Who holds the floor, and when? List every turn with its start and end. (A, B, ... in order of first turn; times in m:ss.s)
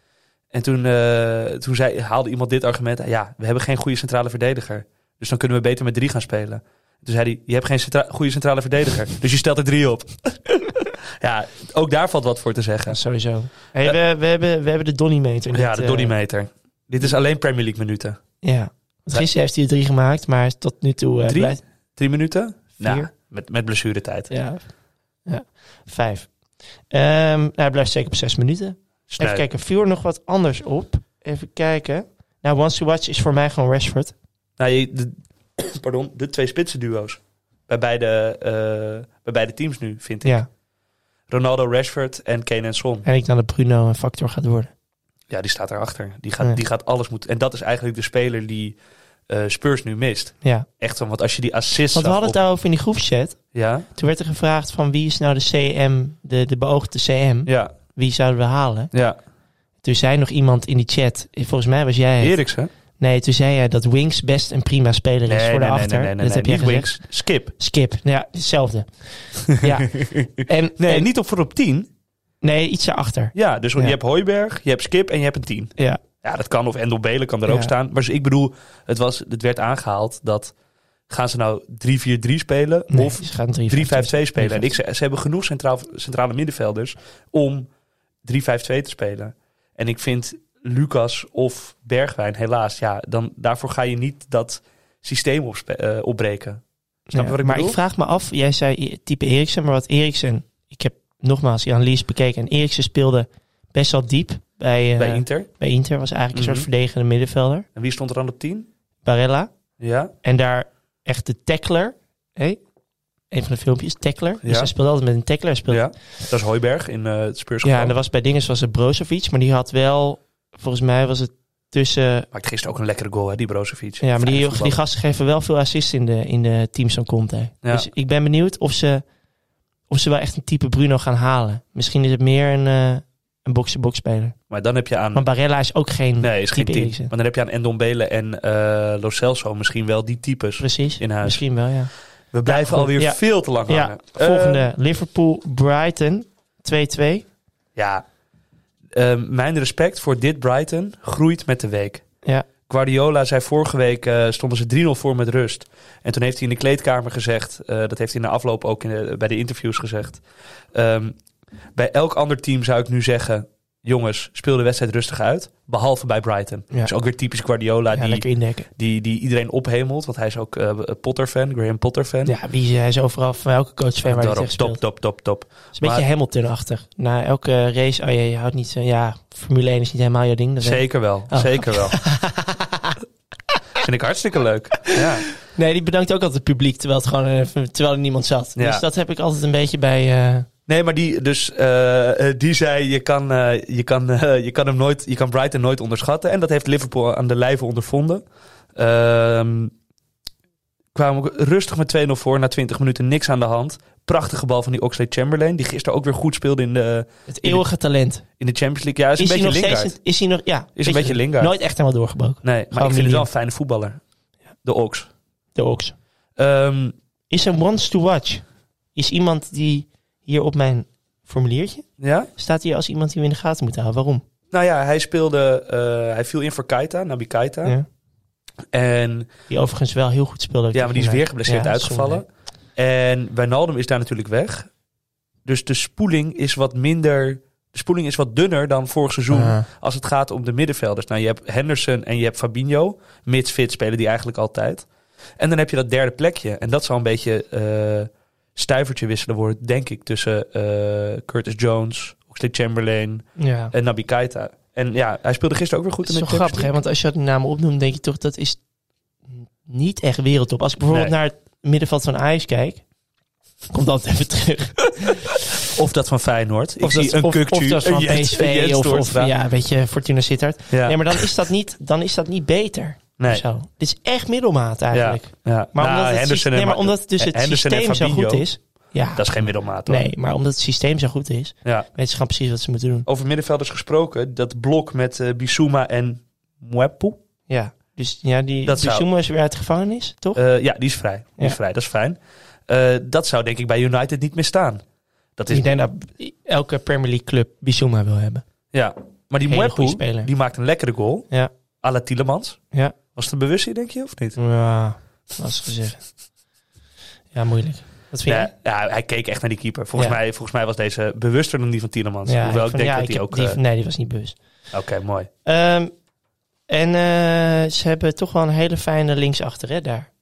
0:00.5-0:13.0 A
0:12.9-0:16.1 B
0:15.5-0:18.2 A
0:18.4-0:21.6 B
0:21.3-0:24.3 A
0:22.8-0:23.1 B
0:24.3-0:24.7 B
0:25.2-0:26.3 B
0:26.9-0:34.1 B
0:29.1-0:29.4 A
0:34.6-0:40.4 A
0:41.3-0:43.0 A
0:43.0-0:44.7 B
0:45.3-0:48.8 A
0:49.3-0:52.4 A
0:50.4-0:50.7 B
0:51.9-0:53.4 B
0:53.5-0:53.9 A
0:53.9-0:58.9 B
0:57.4-0:57.7 A
0:58.9-0:59.2 A
0:59.8-1:02.4 B
1:02.2-1:02.7 A
1:03.0-1:06.9 B
1:05.2-1:07.5 A
1:07.6-1:11.1 B
1:09.5-1:11.9 A
1:12.4-1:14.0 B
1:13.3-1:20.5 A
1:17.5-1:17.7 B
1:21.1-1:27.7 A
1:22.9-1:24.7 B
1:28.2-1:37.8 A
1:37.1-1:47.6 B
1:45.0-1:45.5 A
1:46.3-1:46.7 A
1:47.8-1:48.7 A
1:49.0-1:49.5 B
1:49.8-1:50.1 A
1:50.2-1:52.6 B
1:53.3-1:55.9 B
1:54.4-1:54.7 A
1:55.7-1:58.0 A
1:57.6-2:02.3 B
2:02.3-2:04.8 A
2:04.0-2:09.0 B
2:07.6-2:07.9 A
2:09.9-2:14.4 B
2:14.5-2:15.2 A
2:15.1-2:17.1 B
2:16.2-2:21.4 A
2:20.6-2:21.9 B
2:22.3-2:24.7 A
2:22.4-2:27.3 B
2:27.8-2:28.0 A
2:28.9-2:32.0 A
2:32.7-2:41.2 A
2:41.7-2:52.3 A
2:47.9-2:48.7 B
2:52.2-2:54.8 B
2:54.0-2:56.0 A
2:55.7-3:03.0 B
3:00.6-3:02.0 A
3:03.8-3:05.3 A
3:04.9-3:10.5 B
3:08.6-3:08.8 A
3:10.7-3:18.2 A
3:18.7-3:19.7 A
3:20.9-3:27.6 A
3:27.3-3:28.2 B
3:28.4-3:30.0 A
3:29.2-3:33.3 B
3:30.8-3:31.5 A
3:32.4-3:34.0 A
3:34.6-3:35.1 A
3:35.5-3:35.9 B
3:36.4-3:36.9 A
3:37.3-3:44.2 B
3:42.0-3:42.3 A
3:44.5-3:47.8 A
3:48.7-3:49.3 A
3:49.5-3:52.2 B
3:50.7-3:54.7 A
3:55.4-4:04.9 A
3:59.3-3:59.6 B
4:05.4-4:16.7 A
4:13.4-4:13.7 B
4:16.0-4:18.6 B
4:19.3-4:22.8 B
4:23.7-4:25.4 B
4:25.6-4:29.3 A
4:26.8-4:43.0 B
4:30.7-4:31.2 A
4:33.2-4:33.4 A
4:34.9-4:38.5 A
4:39.1-4:40.1 A
4:43.0-4:47.2 A
4:47.5-4:50.4 B
4:48.6-4:49.0 A
4:50.3-4:54.8 A
4:55.4-4:55.8 A
4:55.5-4:58.4 B
4:58.7-5:01.3 A
4:59.4-5:00.3 B
5:01.8-5:02.6 A
5:03.1-5:04.4 A
5:04.4-5:06.0 B
5:07.3-5:08.5 B
5:08.2-5:13.6 A
5:12.2-5:14.4 B
5:14.7-5:15.3 A
5:15.4-5:15.9 B
5:16.7-5:20.1 B